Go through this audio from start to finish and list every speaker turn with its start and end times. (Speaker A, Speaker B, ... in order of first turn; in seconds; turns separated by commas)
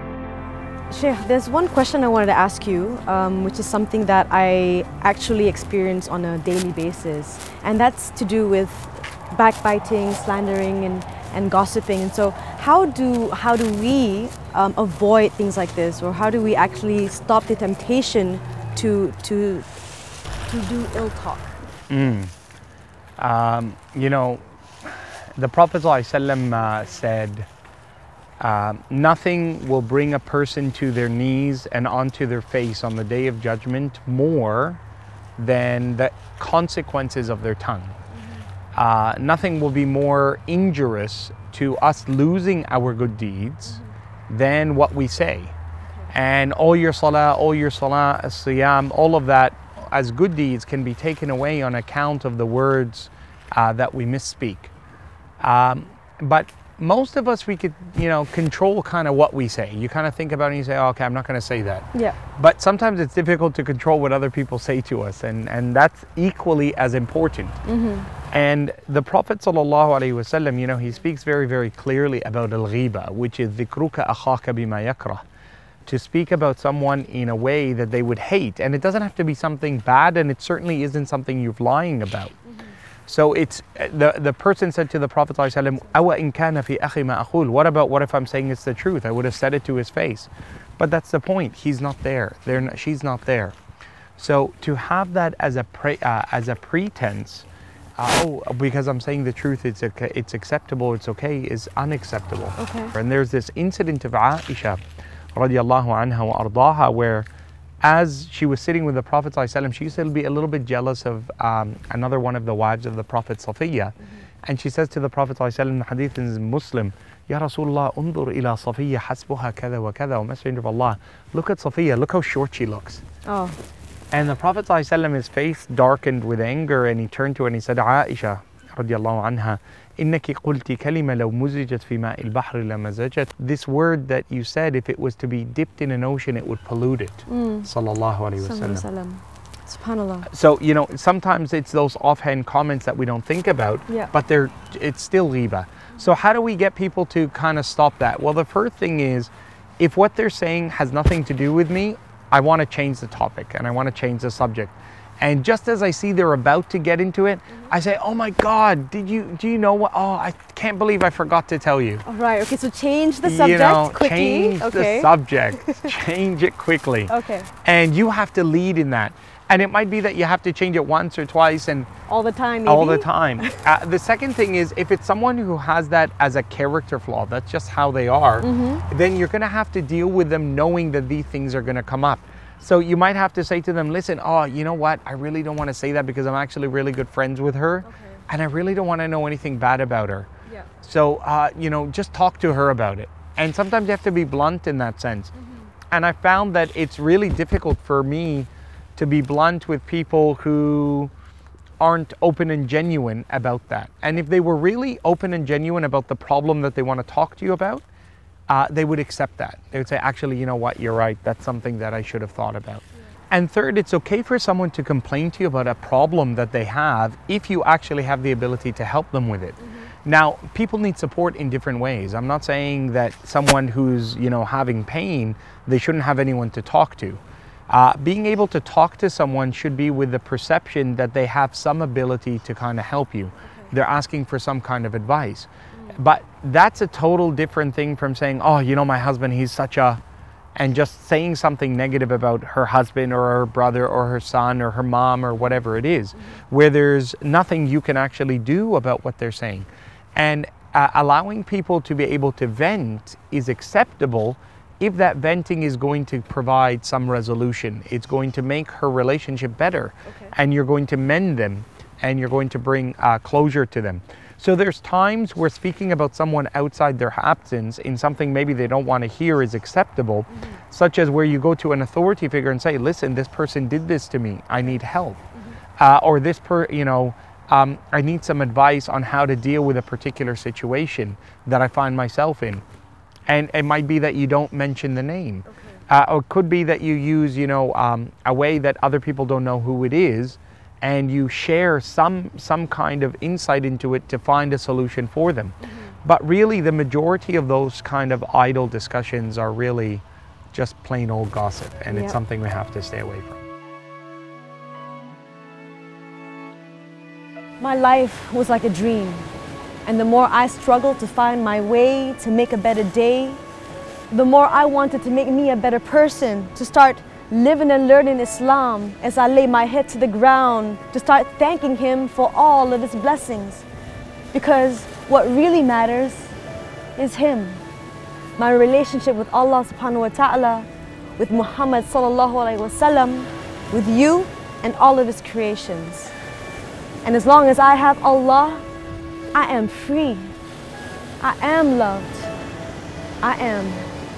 Speaker A: 0.9-19.7, Speaker A: 20.5-21.6, Speaker B: 21.9-22.3, Speaker B: 23.2-27.5, Speaker B: 28.4-34.8, Speaker B: 35.4-38.0, Speaker B: 38.8-45.5, Speaker B: 46.1-54.7, Speaker B: 55.4-67.5, Speaker A: 67.7-68.1, Speaker B: 68.3-75.2, Speaker B: 75.9-82.3, Speaker B: 83.1-93.5, Speaker B: 94.2-97.5, Speaker B: 98.0-104.8, Speaker A: 102.6-103.0, Speaker B: 105.3-107.3, Speaker B: 107.8-113.9, Speaker B: 114.5-123.0, Speaker A: 123.3-123.6, Speaker B: 124.1-138.9, Speaker A: 137.3-137.7, Speaker A: 138.4-140.3, Speaker B: 140.3-162.0, Speaker A: 162.1-165.9, Speaker B: 163.2-167.1, Speaker A: 167.1-167.5, Speaker B: 167.6-171.9, Speaker A: 172.1-173.6, Speaker B: 172.7-190.3, Speaker A: 178.4-178.8, Speaker B: 190.8-195.3, Speaker B: 195.9-201.1, Speaker B: 201.8-207.8, Speaker B: 208.5-240.0, Speaker B: 240.6-275.2, Speaker B: 275.8-282.6, Speaker B: 283.3-303.4, Speaker A: 301.9-302.2, Speaker A: 307.6-309.3, Speaker A: 309.9-313.4, Speaker A: 314.1-323.7, Speaker A: 324.3-326.3, Speaker A: 327.0-327.6, Speaker A: 328.4-336.1, Speaker A: 337.0-338.6, Speaker A: 339.3-340.4, Speaker A: 341.2-342.3, Speaker A: 343.2-343.9